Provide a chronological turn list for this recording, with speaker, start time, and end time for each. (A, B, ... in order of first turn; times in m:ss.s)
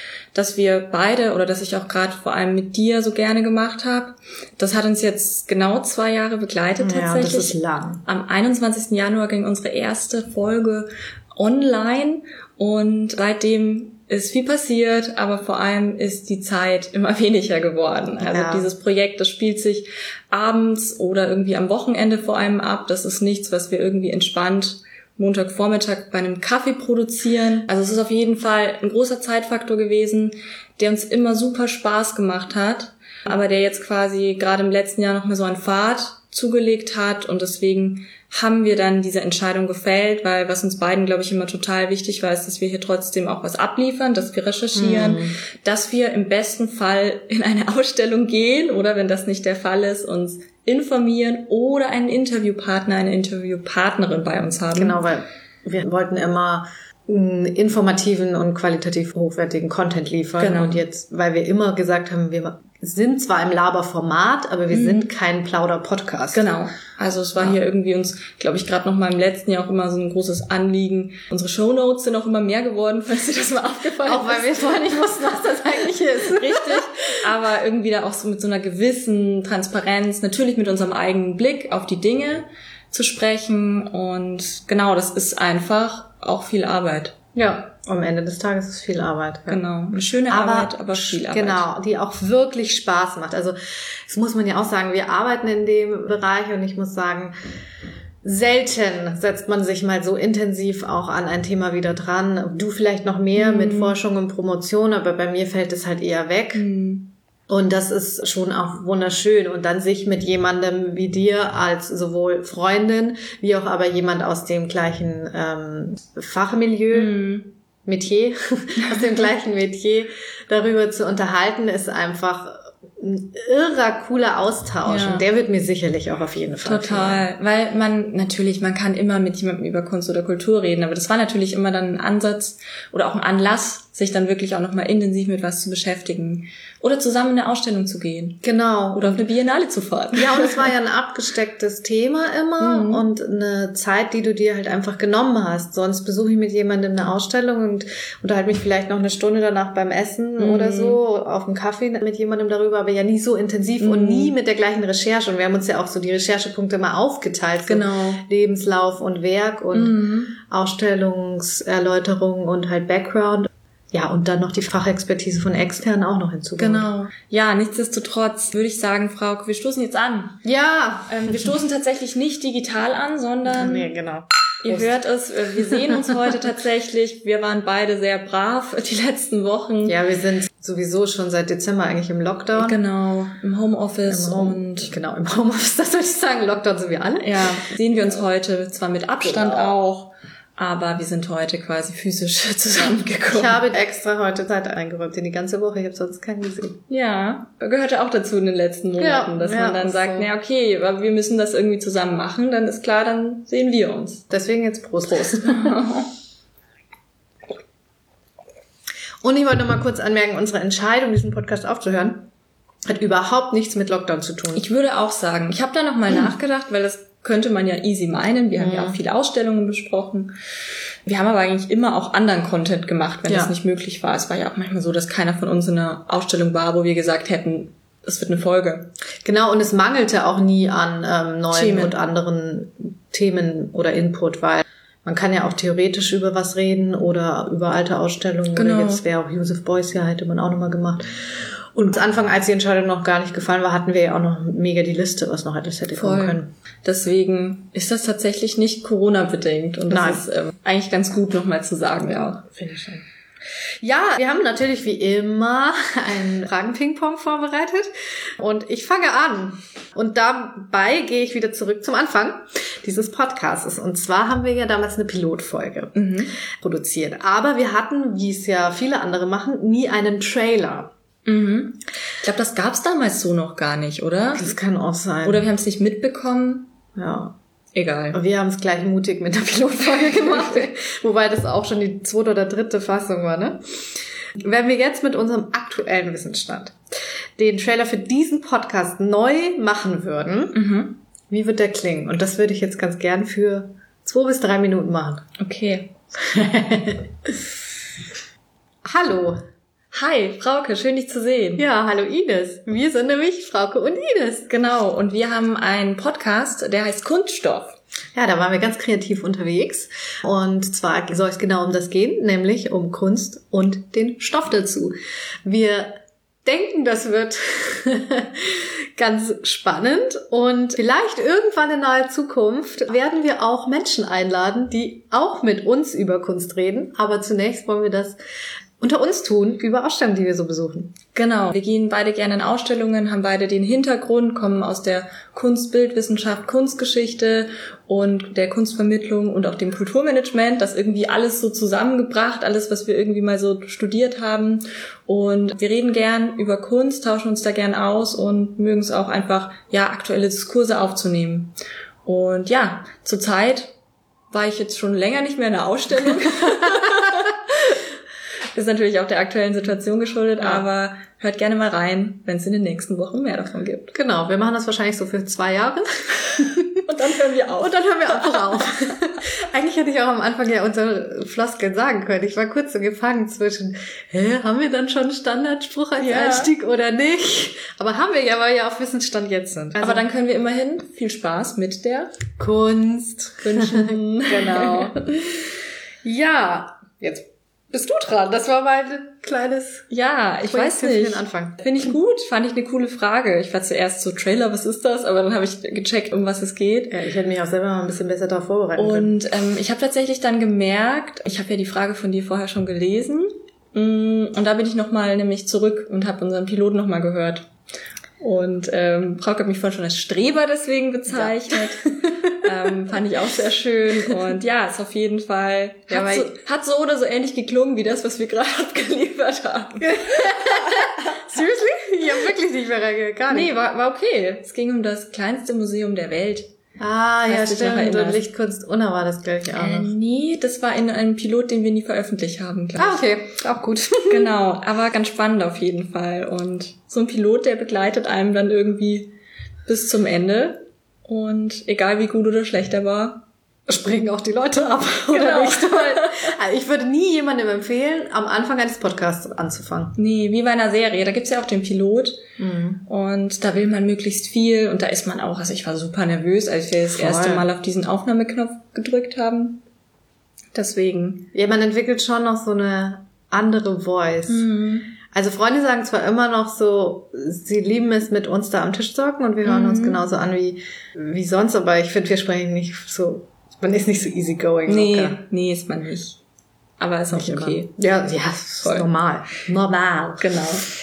0:00.3-0:55.0 A
0:06.8-0:08.0 B
0:18.2-0:18.7 B
0:44.7-0:45.4 B
0:54.7-1:06.5 B
1:00.4-1:00.8 A
1:04.7-1:05.1 A
1:06.3-1:14.6 A
1:14.0-1:17.2 B
1:16.2-1:27.2 A
1:27.3-1:29.6 B
1:29.5-1:31.7 A
1:30.3-1:37.3 B
1:38.2-1:46.6 B
1:43.4-1:44.0 A
1:46.5-1:47.1 A
1:47.5-1:57.2 B
1:56.9-1:57.5 A
1:57.8-2:07.3 B
1:58.8-1:59.2 A
2:04.8-2:05.2 A
2:06.6-2:18.4 A
2:18.4-2:19.2 B
2:18.9-2:20.7 A
2:20.1-2:46.9 B
2:22.6-2:23.0 A
2:30.4-2:31.0 A
2:33.8-2:34.3 A
2:37.6-2:38.2 A
2:39.7-2:40.3 A
2:46.6-2:50.4 A
2:50.4-2:51.5 B
2:51.1-2:53.9 A
2:53.5-2:55.0 B
2:54.6-3:00.0 A
2:55.6-2:56.3 B
2:59.8-3:02.8 B
3:02.6-3:04.9 A
3:04.0-3:07.5 B
3:07.2-3:13.6 A
3:09.2-3:09.8 B
3:13.3-3:16.8 B
3:16.9-3:24.2 A
3:19.0-3:20.3 B
3:24.3-3:25.8 B
3:25.4-3:26.1 A
3:29.2-3:32.3 B
3:32.8-3:34.6 B
3:34.5-3:40.3 A
3:38.6-3:39.0 B
3:41.0-3:48.9 A
3:43.2-3:43.5 B
3:49.2-4:06.5 B
3:51.5-3:51.9 A
3:58.5-3:59.0 A
4:05.9-4:12.4 A
4:09.9-4:10.2 B
4:12.5-4:13.0 B
4:13.8-4:30.9 B
4:25.9-4:26.3 A
4:31.2-4:34.5 A
4:34.3-4:35.5 B
4:35.2-4:36.7 A
4:37.0-4:37.4 B
4:37.7-4:38.2 A
4:38.1-4:43.6 B
4:40.1-4:40.5 A
4:44.4-4:46.8 B
4:47.4-4:50.6 B
4:50.5-4:51.0 A
4:51.3-4:55.2 B
4:55.4-4:55.9 A
4:56.2-4:57.5 B
4:58.8-4:59.4 B
4:59.9-5:01.6 A
5:01.6-5:04.5 B
5:04.5-5:07.8 A
5:08.1-5:28.2 B
5:28.8-5:31.0 B
5:31.1-5:51.5 A
5:52.0-5:53.7 A
5:54.3-5:57.8 A
5:58.5-6:03.9 A
6:00.4-6:00.6 B
6:03.9-6:06.8 B
6:06.8-6:08.9 A
6:07.6-6:20.0 B
6:16.0-6:16.5 A
6:19.8-6:22.1 A
6:22.4-6:25.5 B
6:23.4-6:25.0 A
6:26.0-6:29.8 B
6:29.9-6:37.0 A
6:30.4-6:31.6 B
6:36.9-6:39.1 B
6:38.8-6:47.5 A
6:48.2-7:00.9 A
6:51.1-6:52.1 B
6:55.9-6:56.3 B
6:59.8-7:03.5 B
7:03.3-7:06.5 A
7:06.8-7:09.9 B
7:07.2-7:08.2 A
7:09.5-7:13.0 A
7:12.8-7:14.3 B
7:14.1-7:19.1 A
7:19.6-7:23.2 A
7:23.7-7:30.0 B
7:25.1-7:26.3 A
7:30.0-7:32.2 A
7:32.4-7:32.8 B
7:32.8-7:39.6 A
7:36.9-7:37.4 B
7:40.5-7:41.3 A
7:41.3-7:55.2 B
7:44.3-7:44.9 A
7:49.4-7:50.0 A
7:54.6-7:56.2 A
7:56.8-7:57.8 A
7:57.1-8:00.4 B
7:58.6-7:58.9 A
8:00.2-8:00.7 A